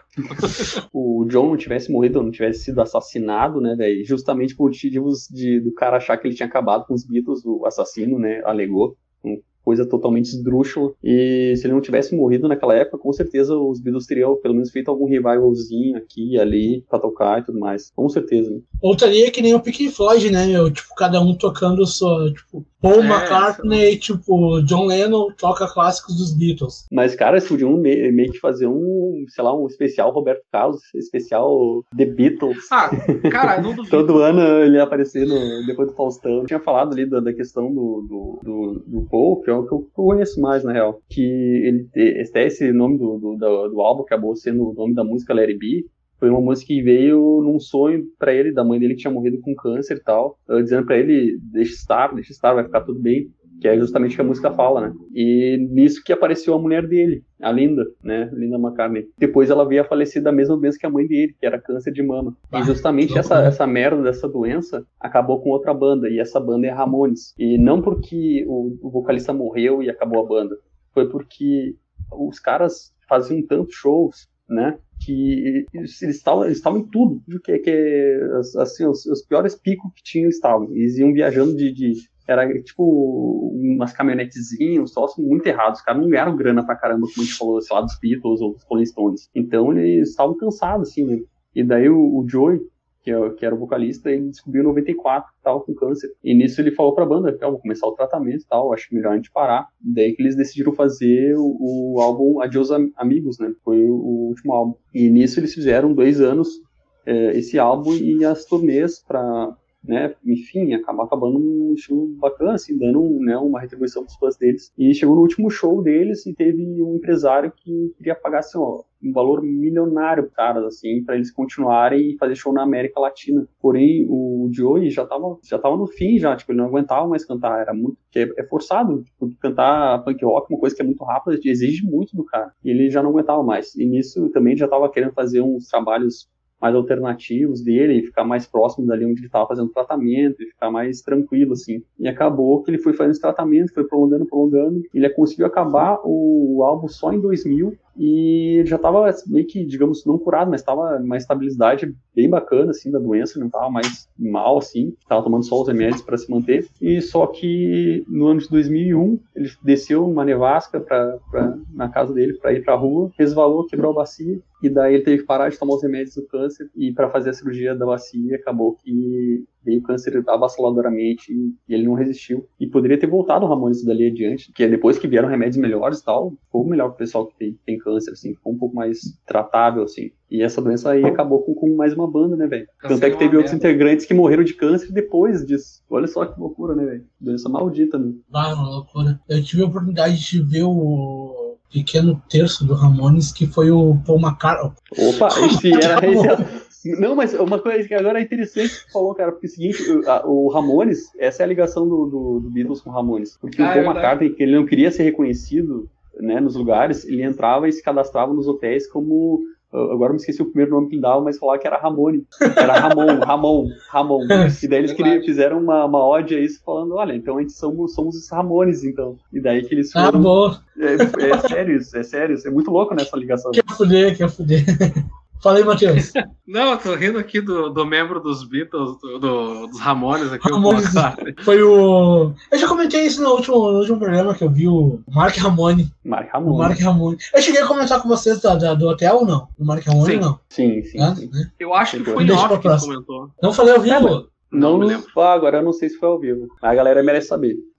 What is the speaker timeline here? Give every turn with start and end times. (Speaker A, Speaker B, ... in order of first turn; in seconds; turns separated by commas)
Speaker A: 0.3-0.8, Speaker B: 0.9-18.6, Speaker C: 18.8-26.8, Speaker A: 23.0-23.8, Speaker B: 26.9-188.2, Speaker A: 32.7-34.4, Speaker C: 62.5-63.5, Speaker A: 182.8-183.6, Speaker C: 188.3-196.4, Speaker B: 194.9-223.7, Speaker A: 203.6-204.2, Speaker C: 212.4-213.0, Speaker A: 214.8-215.3, Speaker C: 219.9-221.5, Speaker C: 223.5-226.1, Speaker A: 226.0-231.4, Speaker C: 230.4-235.9, Speaker B: 236.0-236.8, Speaker C: 236.4-240.4, Speaker A: 240.0-240.3, Speaker B: 240.5-241.3, Speaker C: 241.0-241.5, Speaker A: 241.6-243.3, Speaker B: 241.8-242.5, Speaker C: 242.2-244.2, Speaker B: 243.9-247.6, Speaker A: 244.3-245.1